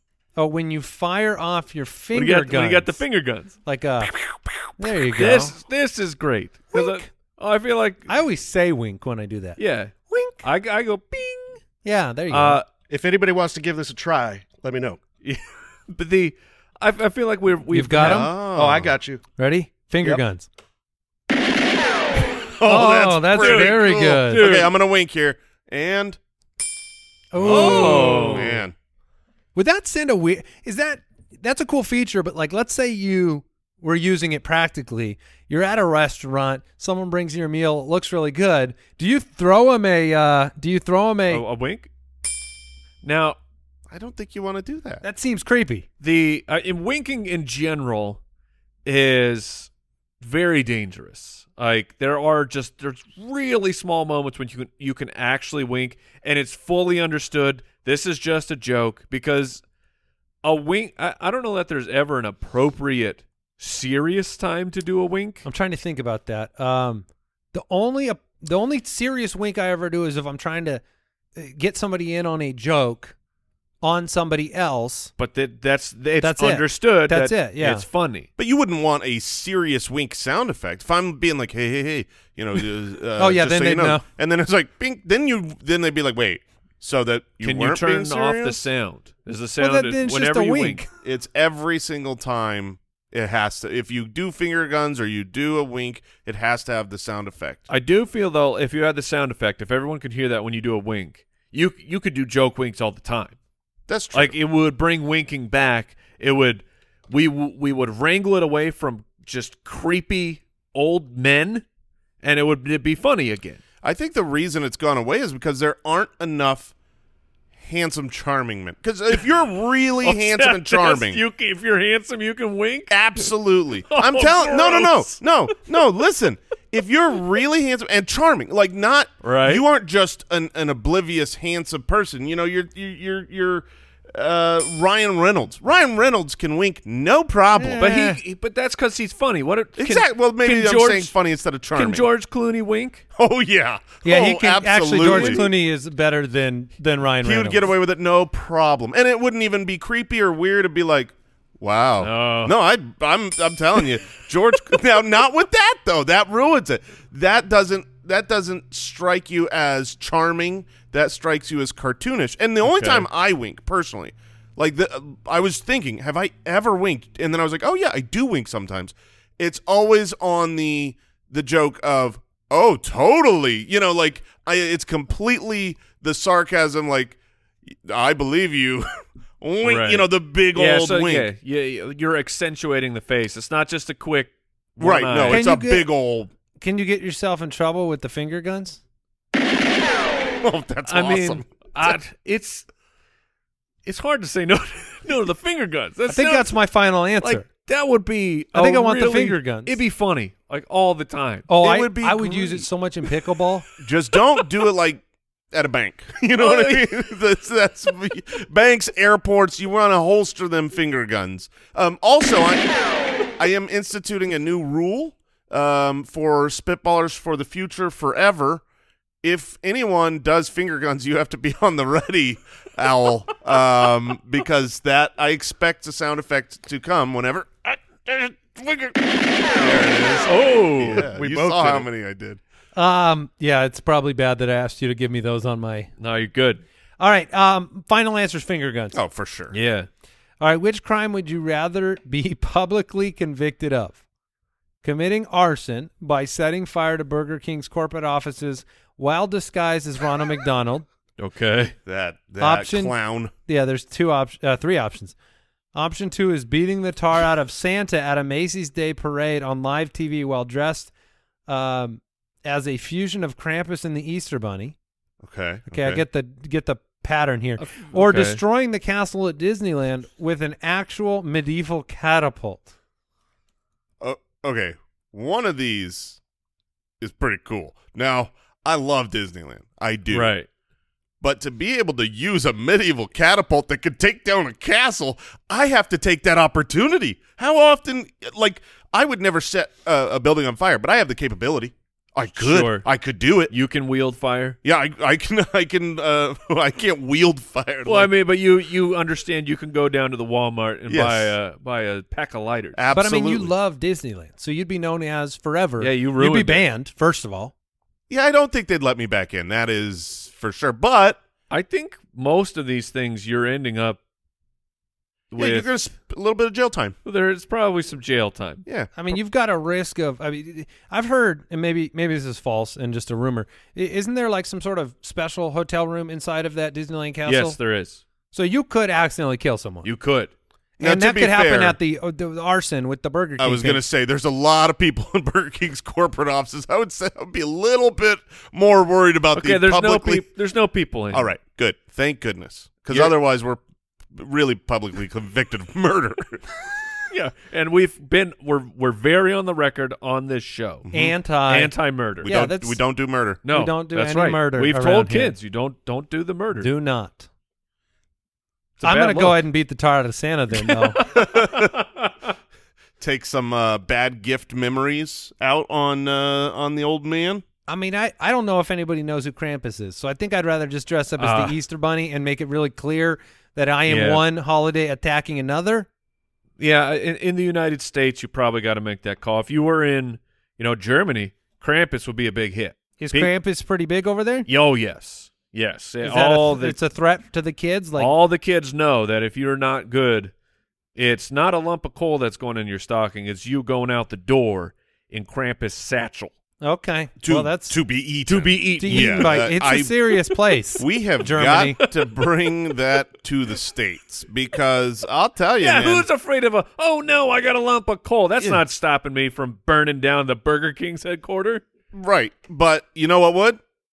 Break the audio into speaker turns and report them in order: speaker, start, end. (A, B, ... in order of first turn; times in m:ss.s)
0:00.4-0:03.0 A
0:02.1-0:03.6 B
0:03.6-0:04.2 A
0:04.8-0:05.5 A
0:04.8-0:08.1 B
0:06.7-0:07.0 A
0:08.1-0:09.6 A
0:09.6-0:11.6 B
0:10.1-0:10.4 A
0:11.8-0:12.6 A
0:12.3-0:12.6 B
0:12.9-0:15.0 C
0:15.2-0:18.3 B
0:17.7-0:18.3 A
0:18.0-0:18.9 D
0:18.5-0:19.2 C
0:19.4-0:20.5 A
0:22.5-0:26.2 D
0:22.6-0:24.4 A
0:23.3-0:24.7 B
0:27.3-0:28.5 A
0:27.3-0:28.7 D
0:27.4-0:28.6 B
0:29.5-0:41.4 A
0:41.3-0:41.9 B
0:43.0-0:43.4 B
0:43.9-0:45.0 D
0:45.0-0:45.8 A
0:46.0-0:48.2 B
0:48.8-0:49.7 B
0:50.2-0:59.6 B
1:00.4-1:05.4 B
1:05.4-1:10.8 A
1:11.4-1:13.1 A
1:13.8-1:15.1 A
1:15.2-1:18.3 B
1:16.2-1:17.8 A
1:18.4-1:28.7 D
1:23.2-1:24.0 A
1:27.4-1:30.8 B
1:29.6-1:30.9 A
1:31.0-1:37.6 D
1:37.7-1:43.4 B
1:43.9-1:44.3 D
1:44.1-1:51.6 B
1:52.2-1:53.6 B
1:53.8-1:56.7 D
1:57.6-2:01.2 D
2:00.0-2:03.3 B
2:02.9-2:18.1 D
2:03.9-2:05.2 B
2:09.2-2:09.6 B
2:17.6-2:18.2 A
2:17.8-2:21.1 B
2:19.8-2:22.0 D
2:21.7-2:23.0 B
2:23.2-2:25.4 D
2:24.0-2:27.7 A
2:25.0-2:25.5 B
2:27.2-2:57.2 D
2:32.0-2:32.5 B
2:42.6-2:43.1 B
2:57.7-2:58.9 D
2:59.4-3:01.3 D
2:59.6-3:05.4 B
3:04.8-3:06.3 D
3:05.3-3:05.9 A
3:06.6-3:08.8 A
3:10.4-3:12.0 D
3:10.8-3:12.7 B
3:13.8-3:16.5 B
3:16.1-3:17.4 A
3:17.2-3:21.5 B
3:18.5-3:19.8 A
3:21.5-3:23.6 A
3:21.6-3:22.6 D
3:23.8-3:38.6 D
3:26.4-3:26.9 B
3:39.2-3:52.4 D
3:50.2-3:51.1 B
3:50.9-3:51.9 C
3:52.7-3:55.9 A
3:56.0-3:56.6 B
3:57.0-3:59.0 A
3:58.9-3:59.5 D
3:59.5-3:59.9 B
4:00.4-4:04.0 A
4:04.8-4:10.8 A
4:11.2-4:11.7 B
4:11.8-4:13.3 D
4:12.4-4:12.9 A
4:13.4-4:15.1 A
4:15.7-4:20.9 A
4:21.5-4:24.7 A
4:25.2-4:26.0 D
4:25.7-4:32.7 A
4:27.6-4:28.4 B
4:34.0-4:36.2 D
4:37.0-4:40.3 D
4:40.1-4:40.5 B
4:41.2-4:53.5 D
4:52.4-4:52.9 B
4:53.5-4:54.6 B
4:54.6-4:58.1 D
4:57.8-5:02.9 B
5:00.9-5:01.3 D
5:02.8-5:03.5 D
5:02.9-5:07.5 A
5:05.8-5:06.6 B
5:08.1-5:11.2 D
5:11.5-5:14.0 B
5:15.3-5:15.7 B
5:15.4-5:17.0 D
5:17.0-5:18.6 B
5:18.9-5:27.6 A
5:27.2-5:28.0 B
5:28.3-5:29.9 A
5:29.8-5:30.3 B
5:30.8-5:33.8 A
5:30.8-5:31.8 D
5:33.4-5:40.2 D
5:39.3-5:41.3 B
5:41.1-5:43.6 D
5:44.1-5:46.6 D
5:47.1-5:50.9 B
5:50.9-5:51.1 D
5:50.9-5:52.8 A
5:51.4-5:52.3 B
5:52.2-5:53.4 D
5:53.4-5:56.7 B
5:53.5-5:55.3 A
5:56.6-5:57.3 A
5:58.8-5:59.4 B
5:58.8-6:01.0 A
6:00.6-6:02.1 B
6:01.0-6:01.7 D
6:03.0-6:07.4 D
6:07.7-6:15.9 A
6:11.2-6:11.6 B
6:13.9-6:14.2 B
6:16.6-6:23.3 B
6:23.0-6:24.5 A
6:24.5-6:26.8 B
6:26.0-6:28.1 A
6:28.0-6:30.3 B
6:30.9-6:36.3 B
6:36.6-6:37.8 A
6:37.2-6:39.9 D
6:38.3-6:39.5 B
6:38.8-6:41.8 A
6:40.8-6:46.1 D
6:41.8-6:42.3 B
6:45.6-6:51.6 B
6:51.9-6:53.6 D